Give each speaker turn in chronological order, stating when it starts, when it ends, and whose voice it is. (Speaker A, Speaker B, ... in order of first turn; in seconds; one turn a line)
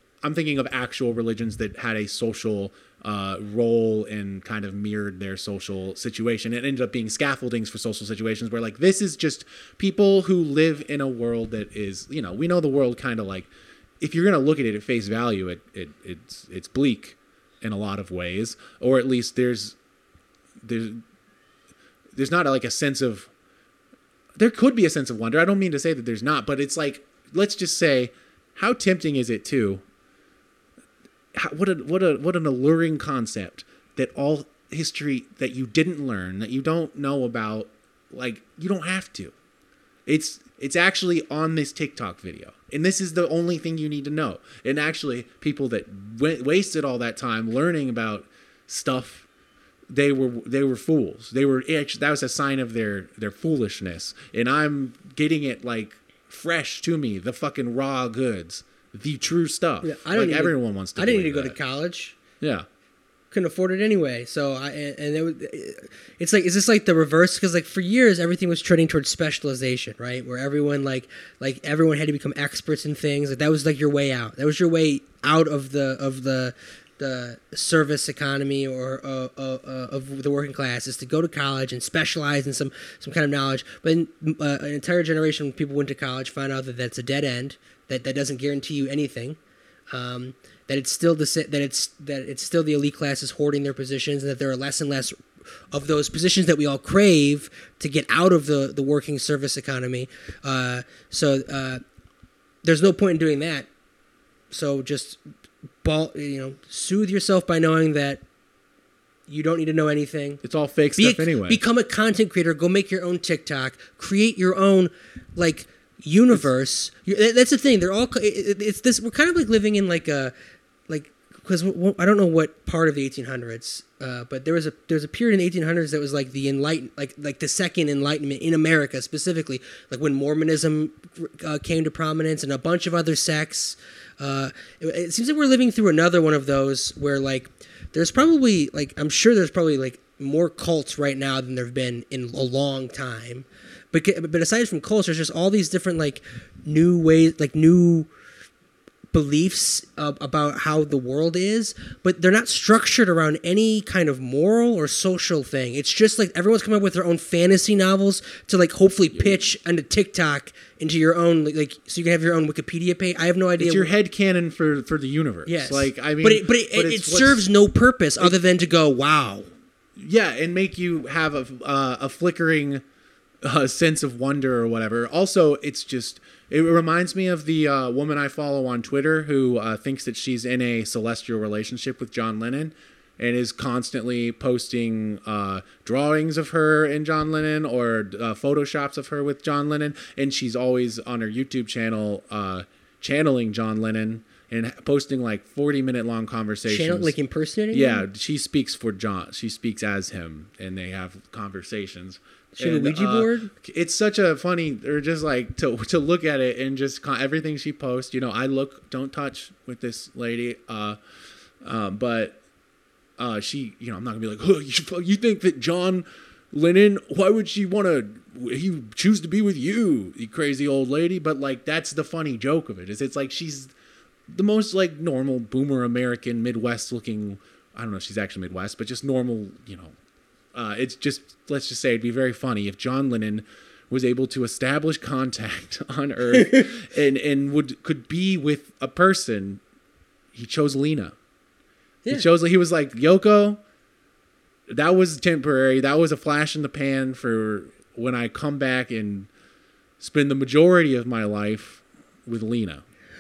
Speaker A: 0.2-13.5
Speaker A: 14.0-19.8
Speaker A: 20.6-21.0
Speaker A: 22.1-23.3
Speaker A: 24.4-29.8
Speaker A: 31.4-39.3
Speaker A: 40.1-49.3
Speaker A: 49.9-61.6
Speaker B: 59.8-62.2
Speaker A: 62.4-62.7
Speaker B: 63.3-89.4
Speaker B: 89.9-95.2
Speaker B: 95.7-101.8
Speaker B: 102.6-103.7
Speaker B: 104.5-105.2
Speaker B: 105.8-108.2
Speaker B: 109.3-110.4
Speaker A: 110.4-111.6
Speaker B: 111.0-120.3
Speaker B: 120.9-148.1
Speaker B: 149.1-163.9
Speaker A: 163.6-167.4
Speaker B: 165.5-169.5
Speaker A: 170.0-172.8
Speaker A: 173.4-197.1
Speaker B: 196.7-198.0
Speaker A: 197.7-211.0
Speaker B: 202.6-203.5
Speaker A: 211.6-212.4
Speaker A: 213.2-223.7
Speaker A: 224.3-229.9
Speaker A: 230.5-239.6
Speaker B: 236.4-236.7
Speaker A: 240.3-241.2
Speaker A: 242.1-243.6
Speaker A: 244.7-249.3
Speaker A: 250.0-252.8